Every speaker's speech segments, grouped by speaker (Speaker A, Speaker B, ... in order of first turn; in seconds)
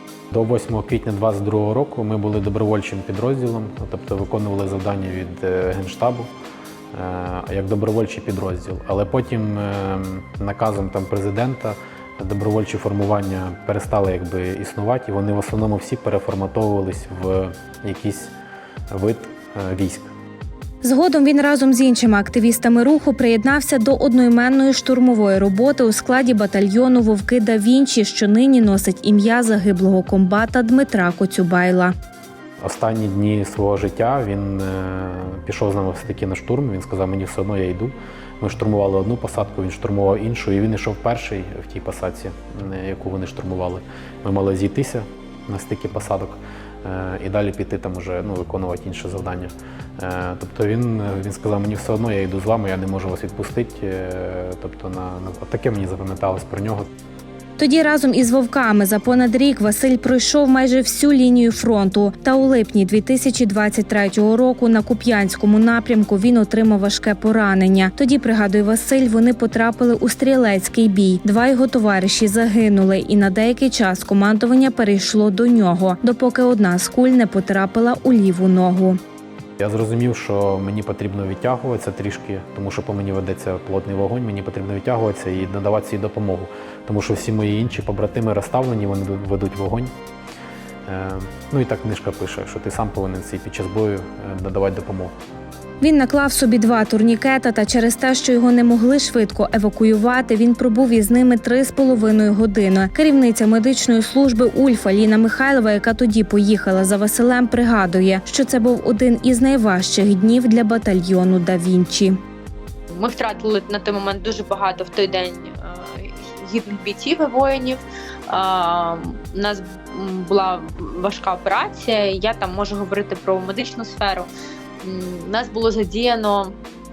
Speaker A: 0.3-6.3, 6.9-18.3, 18.9-20.1, 32.6-56.9, 79.6-89.9, 90.9-95.1
Speaker B: 20.8-31.9, 57.6-79.0, 95.8-112.2
Speaker C: 112.9-124.3, 124.8-126.6